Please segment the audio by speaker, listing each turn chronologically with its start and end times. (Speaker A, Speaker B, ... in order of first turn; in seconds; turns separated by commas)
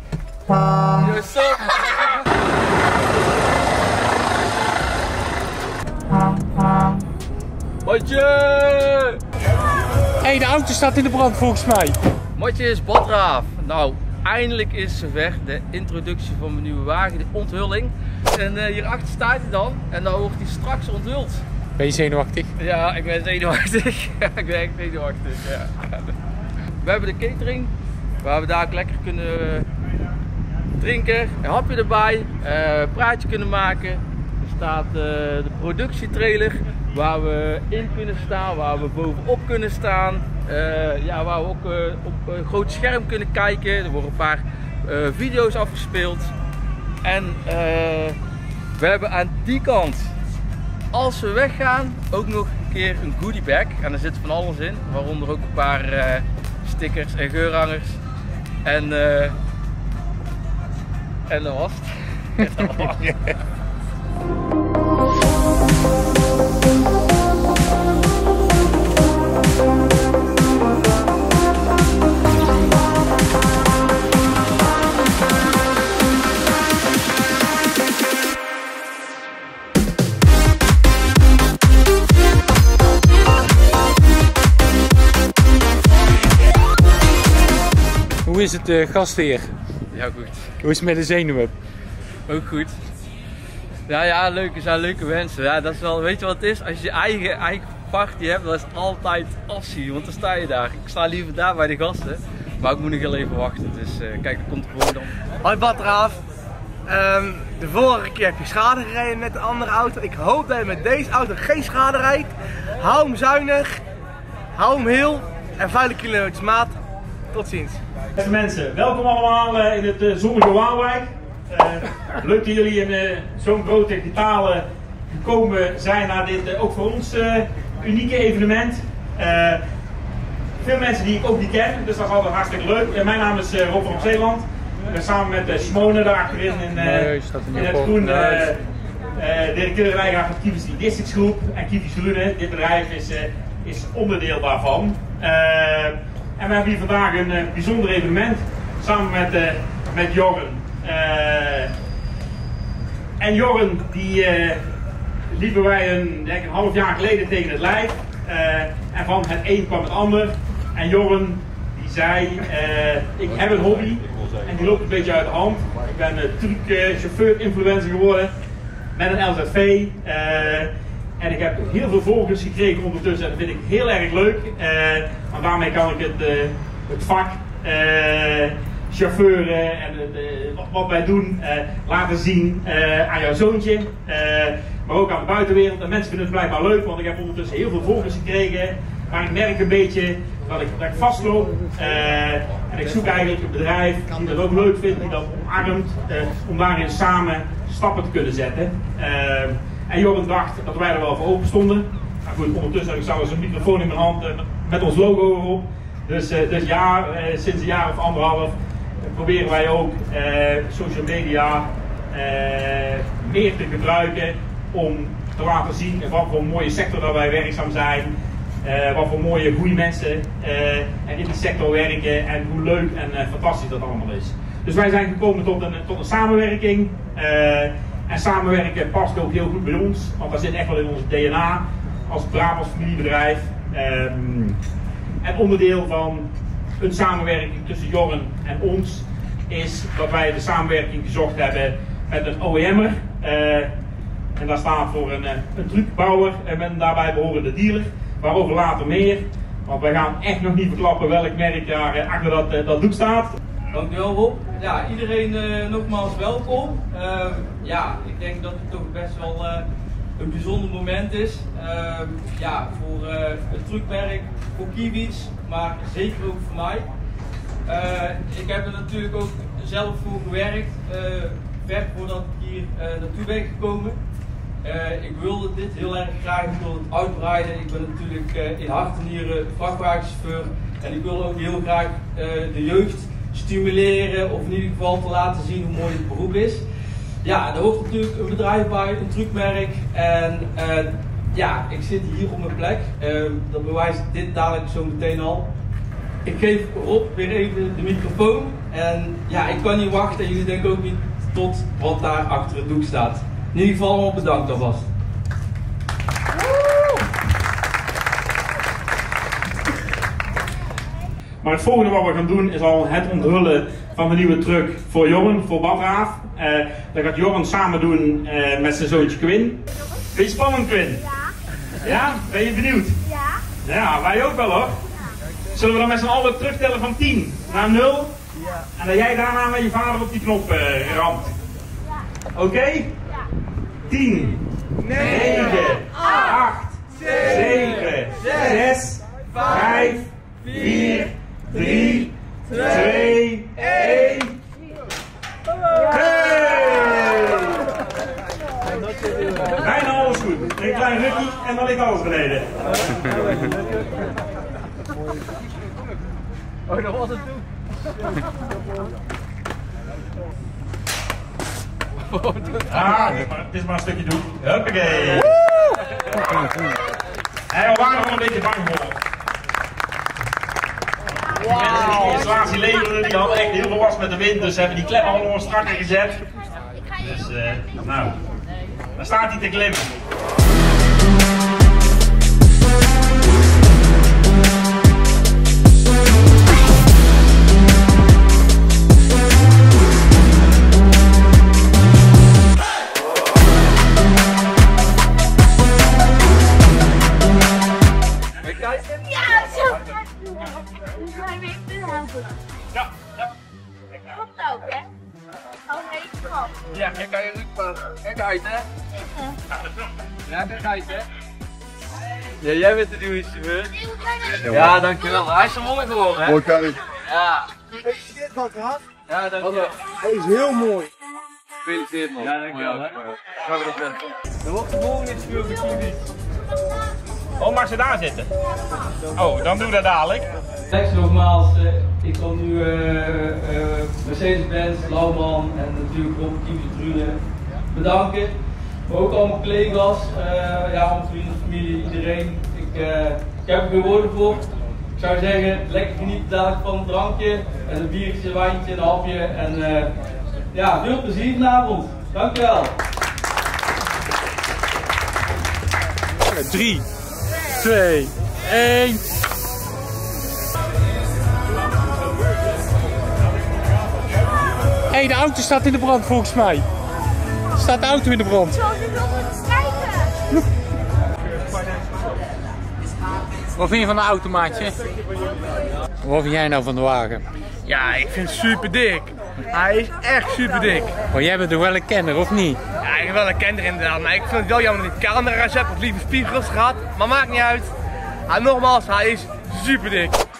Speaker A: 1.0-2.3, Speaker A: 7.8-9.2, Speaker B: 10.2-12.0, Speaker A: 12.4-21.4, Speaker B: 21.8-22.5, Speaker A: 22.6-26.1, Speaker A: 26.8-29.7, Speaker A: 30.8-46.3, Speaker A: 47.0-48.2, Speaker A: 48.8-50.1, Speaker A: 50.9-58.0, Speaker A: 58.6-59.4, Speaker A: 61.3-63.4, Speaker B: 88.2-89.6, Speaker A: 89.9-90.6, Speaker B: 90.6-91.5, Speaker A: 92.3-92.8, Speaker A: 93.9-105.2, Speaker C: 105.4-106.2, Speaker C: 106.9-113.8, Speaker C: 114.5-116.8, Speaker C: 117.3-117.8, Speaker D: 118.2-129.6, Speaker D: 130.6-138.6, Speaker B: 136.7-138.5, Speaker D: 139.2-151.7, Speaker D: 153.2-154.6, Speaker D: 155.3-168.3, Speaker D: 168.9-234.6, Speaker D: 235.2-243.7, Speaker D: 244.4-253.4, Speaker A: 253.7-259.6, Speaker A: 260.2-266.9, Speaker A: 267.7-274.0, Speaker A: 274.6-286.7, Speaker A: 287.2-295.5, Speaker A: 296.2-304.9, Speaker D: 311.4-319.6, Speaker D: 320.1-321.1, Speaker D: 321.8-323.0, Speaker D: 323.6-324.8, Speaker D: 325.5-328.2, Speaker D: 328.8-331.3, Speaker D: 332.4-333.0, Speaker D: 333.9-344.4, Speaker D: 345.9-347.7, Speaker D: 349.6-353.4, Speaker A: 356.7-357.4, Speaker A: 362.1-362.6, Speaker D: 362.7-365.4, Speaker D: 367.5-369.0, Speaker D: 371.4-376.2, Speaker D: 377.0-378.2, Speaker D: 379.0-379.9, Speaker A: 398.4-399.9, Speaker E: 399.0-402.4, Speaker E: 404.1-404.9, Speaker E: 405.7-406.5, Speaker A: 406.7-408.7, Speaker E: 409.1-409.4, Speaker A: 410.3-411.1, Speaker A: 412.4-413.8, Speaker E: 413.8-414.5, Speaker A: 414.4-417.5, Speaker C: 417.9-418.9, Speaker A: 419.1-419.8, Speaker C: 419.5-420.9, Speaker C: 421.6-423.0, Speaker A: 422.1-426.0, Speaker D: 427.4-428.3, Speaker D: 429.1-430.3, Speaker A: 430.7-444.4, Speaker A: 445.0-449.9, Speaker A: 450.5-452.8, Speaker B: 456.3-456.9, Speaker B: 457.6-459.1, Speaker B: 464.9-466.7, Speaker B: 467.6-468.6, Speaker E: 468.6-470.1, Speaker B: 473.6-474.9, Speaker B: 476.0-477.2, Speaker C: 477.6-481.0, Speaker B: 481.1-482.6, Speaker C: 482.8-487.7, Speaker C: 488.3-490.2